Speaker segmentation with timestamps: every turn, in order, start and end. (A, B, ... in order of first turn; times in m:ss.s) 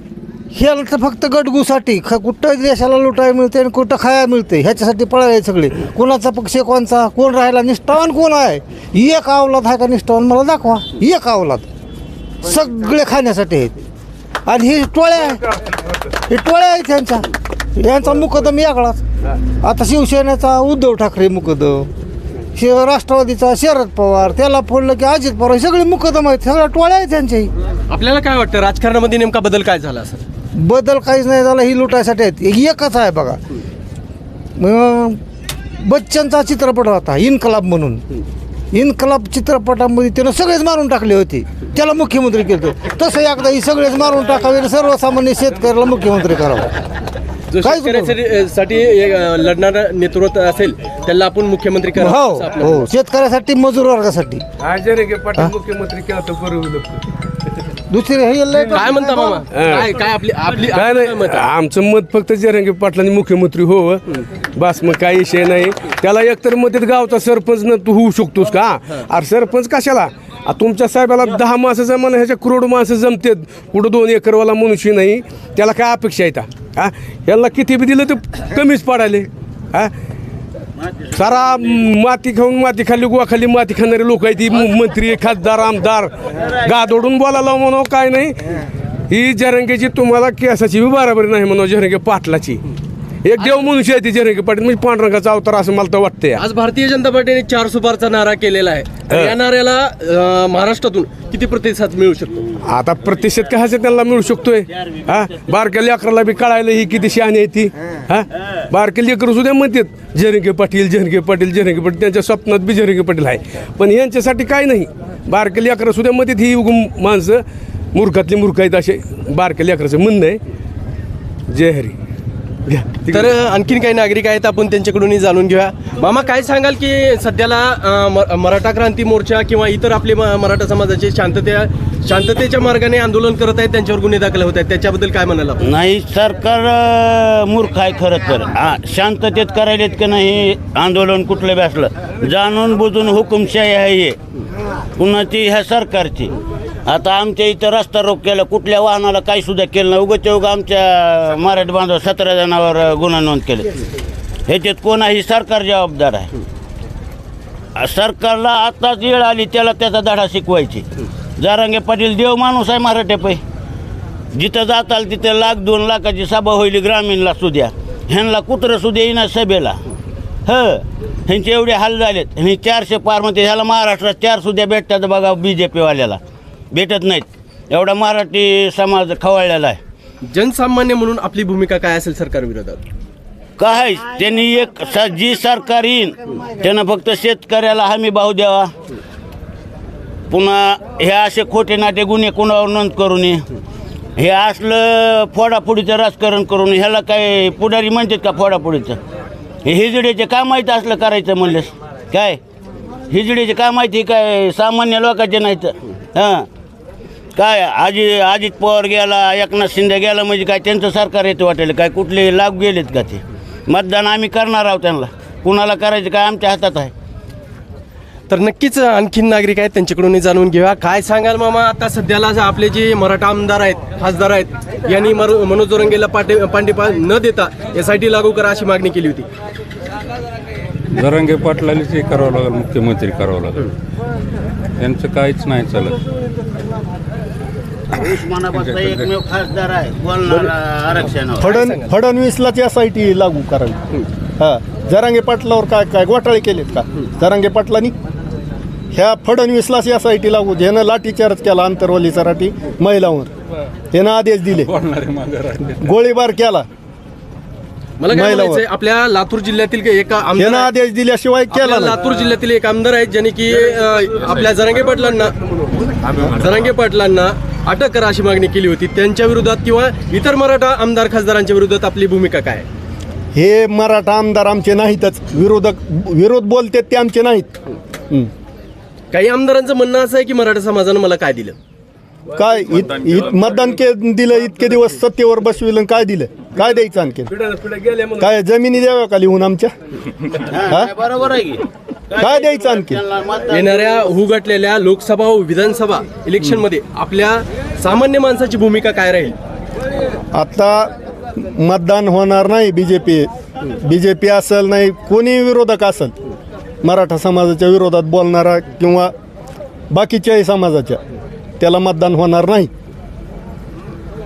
0:00.5-0:11.6 A
0:12.4-0:13.8 A
0:14.4-0:15.6 A
0:16.1-0:19.0 A
0:19.6-0:21.9 A
0:22.5-0:27.5 A
0:27.9-0:30.2 B
0:30.5-0:33.4 A
0:34.6-0:35.2 A
0:35.8-0:38.0 A
0:38.7-0:46.7 A
0:47.5-0:52.8 B
0:47.6-0:48.1 A
0:52.0-0:54.4 A
0:54.6-0:57.0 C
0:57.9-0:59.4 A
0:58.7-1:01.4 B
0:59.5-0:59.9 C
1:00.7-1:19.9 C
1:21.1-1:28.6 C
1:29.1-1:32.6 C
1:33.2-1:36.4 C
1:36.4-1:42.4 B
1:42.6-1:57.4 C
1:57.9-2:00.4 C
2:01.5-2:02.0 C
2:02.7-2:03.3 C
2:03.1-2:15.6 B
2:15.6-2:24.2 D
2:25.0-2:26.3 D
2:26.8-2:33.8 D
2:34.5-2:36.3 D
2:37.8-2:40.8 D
2:41.4-2:43.4 D
2:44.3-2:49.8 D
2:50.4-2:56.2 D
2:56.7-2:59.8 D
3:00.3-3:02.8 B
3:03.6-3:08.7 D
3:10.3-3:13.4 D
3:14.2-3:19.0 D
3:19.6-3:22.4 D
3:23.1-3:26.5 D
3:27.4-3:36.9 D
3:38.3-3:49.3 B
3:50.9-3:53.7 E
3:54.8-3:56.0 E
3:57.9-4:01.5 D
3:58.5-3:59.0 E
4:01.4-4:03.8 F
4:01.4-4:01.9 B
4:04.4-4:07.9 F
4:08.9-4:13.3 F
4:13.9-4:14.7 F
4:14.5-4:16.0 E
4:15.8-4:16.7 F
4:18.0-4:20.7 B
4:18.1-4:18.6 F
4:20.4-4:22.0 F
4:21.5-4:32.6 B
4:33.3-4:37.5 F
4:39.1-4:41.6 B
4:42.3-4:47.3 F
4:47.3-4:48.3 C
4:48.2-4:49.7 F
4:50.5-4:53.7 D
4:50.6-4:50.9 F
4:52.2-4:53.0 F
4:53.5-4:59.4 B
5:00.3-5:06.1 F
5:06.8-5:09.1 F
5:09.9-5:11.0 F
5:11.6-5:12.7 F